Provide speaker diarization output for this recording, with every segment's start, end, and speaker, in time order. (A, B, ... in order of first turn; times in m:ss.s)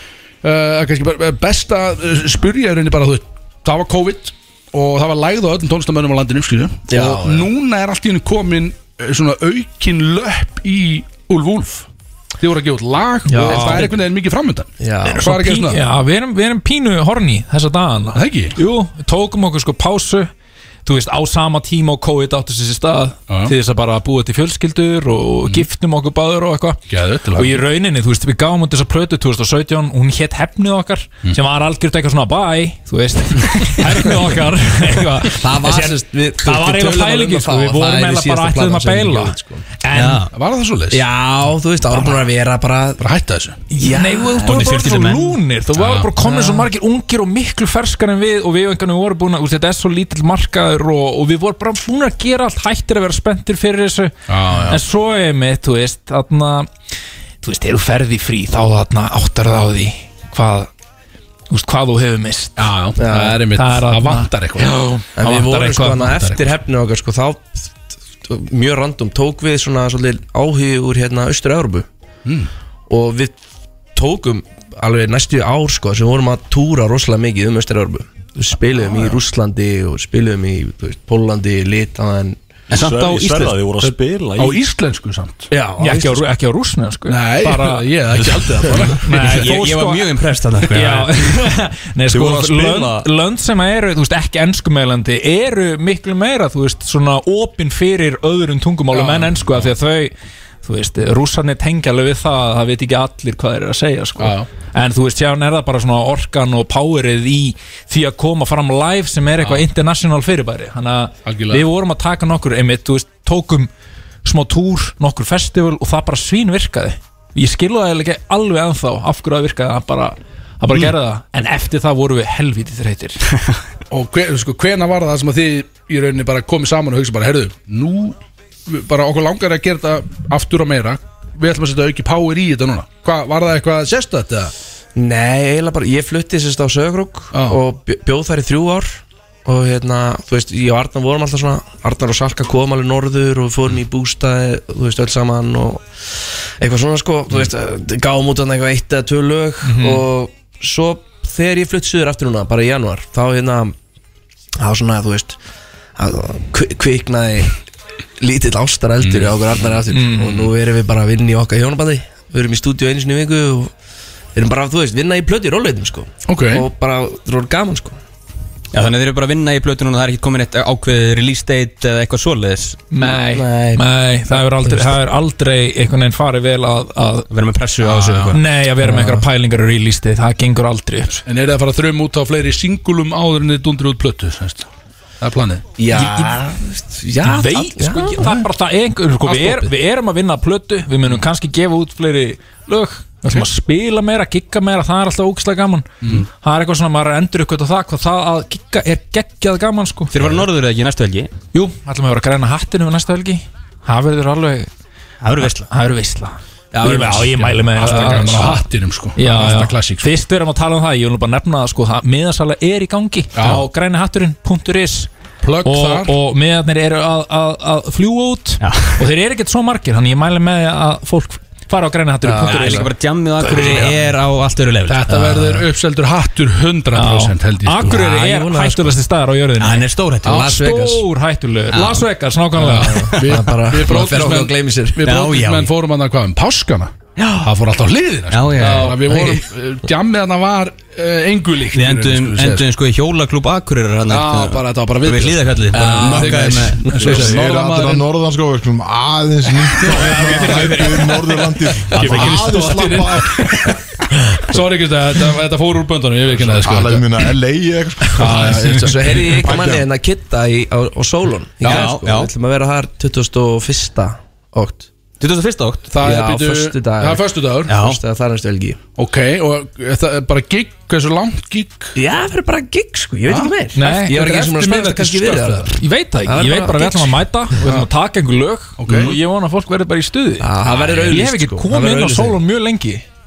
0:00.4-0:11.9 A
0:06.9-0:07.5 B
0:12.4-0:15.8 A
0:13.3-0:13.9 B
0:13.3-0:14.0 C
0:14.8-0:15.3 B
0:15.1-0:20.3 C
0:18.2-0:18.6 A
0:20.9-0:26.8 C
0:23.3-0:23.6 A
0:26.9-0:27.6 A
0:27.4-0:40.3 C
0:35.3-0:39.7 B
0:39.9-0:40.3 D
0:40.3-0:41.0 A
0:40.9-0:43.0 B
0:41.9-0:42.2 C
0:43.0-0:43.6 A
0:43.7-0:44.7 B
0:43.8-0:54.1 C
0:44.4-0:45.4 D
0:45.8-0:46.1 A
0:46.2-0:46.7 B
0:54.3-0:54.8 A
0:54.7-0:56.7 C
0:57.4-1:00.7 C
1:01.5-1:02.7 C
1:02.6-1:04.7 A
1:03.0-1:03.4 B
1:03.5-1:06.2 C
1:05.1-1:07.7 B
1:06.0-1:06.4 A
1:08.2-1:11.9 B
1:12.9-1:13.4 B
1:14.0-1:22.4 B
1:22.7-1:23.6 D
1:22.7-1:24.6 E
1:23.8-1:25.5 A
1:25.5-1:26.3 B
1:25.8-1:27.9 C
1:27.1-1:29.4 A
1:28.2-1:28.8 E
1:29.0-1:30.1 C
1:29.1-1:31.4 D
1:30.7-1:53.7 C
1:32.1-1:32.9 E
1:32.1-1:33.0 D
1:38.9-1:39.5 A
1:44.2-1:44.5 A
1:51.3-1:51.7 A
1:54.2-2:03.3 C
2:03.9-2:14.5 A
2:15.0-2:33.8 B
2:17.3-2:17.6 A
2:29.6-2:30.0 C
2:34.6-2:35.4 B
2:36.0-2:37.5 B
2:38.2-2:43.7 B
2:39.0-2:39.3 A
2:39.9-2:40.5 C
2:44.4-2:48.0 B
2:46.3-2:46.7 A
2:48.7-2:52.8 D
2:52.9-2:57.3 C
2:53.0-2:55.0 B
2:57.3-2:58.4 D
2:57.9-3:01.2 C
2:58.0-2:58.4 A
2:58.8-2:59.3 B
3:01.3-3:04.7 A
3:05.2-3:05.6 A
3:05.8-3:08.5 B
3:05.9-3:06.4 C
3:07.2-3:20.4 C
3:09.2-3:09.7 A
3:20.1-3:21.3 D
3:21.5-3:24.7 C
3:25.2-3:25.7 D
3:25.4-3:28.6 C
3:26.8-3:27.1 B
3:26.8-3:30.1 A
3:29.2-3:35.1 C
3:33.4-3:33.7 A
3:35.4-3:36.2 A
3:35.6-3:44.0 C
3:38.6-3:39.1 D
3:42.2-3:42.9 B
3:42.4-3:45.6 D
3:43.5-3:43.8 B
3:44.9-3:47.9 A
3:46.9-3:53.2 C
3:47.8-3:49.0 B
3:49.6-3:50.5 D
3:50.2-3:51.1 B
3:51.7-3:52.1 D
3:52.6-3:55.0 B
3:52.7-4:02.7 A
3:55.0-3:55.7 D
3:58.3-3:59.4 D
3:58.6-3:59.1 C
4:01.7-4:07.3 D
4:04.1-4:08.1 A
4:05.8-4:06.0 B
4:06.0-4:13.6 F
4:06.6-4:07.0 B
4:09.9-4:10.4 D
4:09.9-4:11.0 A
4:10.2-4:10.9 C
4:11.9-4:13.8 A
4:11.9-4:12.5 D
4:14.3-4:17.3 A
4:16.3-4:19.9 F
4:18.2-4:19.0 A
4:18.2-4:24.9 B
4:21.6-4:22.0 A
4:21.6-4:22.3 D
4:25.2-4:25.9 D
4:25.9-4:27.8 A
4:26.0-4:28.8 B
4:27.7-4:28.0 D
4:29.0-4:32.0 A
4:32.0-4:37.9 B
4:33.3-4:33.5 A
4:33.8-4:40.5 C
4:35.3-4:35.7 A
4:38.8-4:39.2 A
4:40.4-4:42.4 B
4:40.7-4:41.1 D
4:41.1-4:43.0 C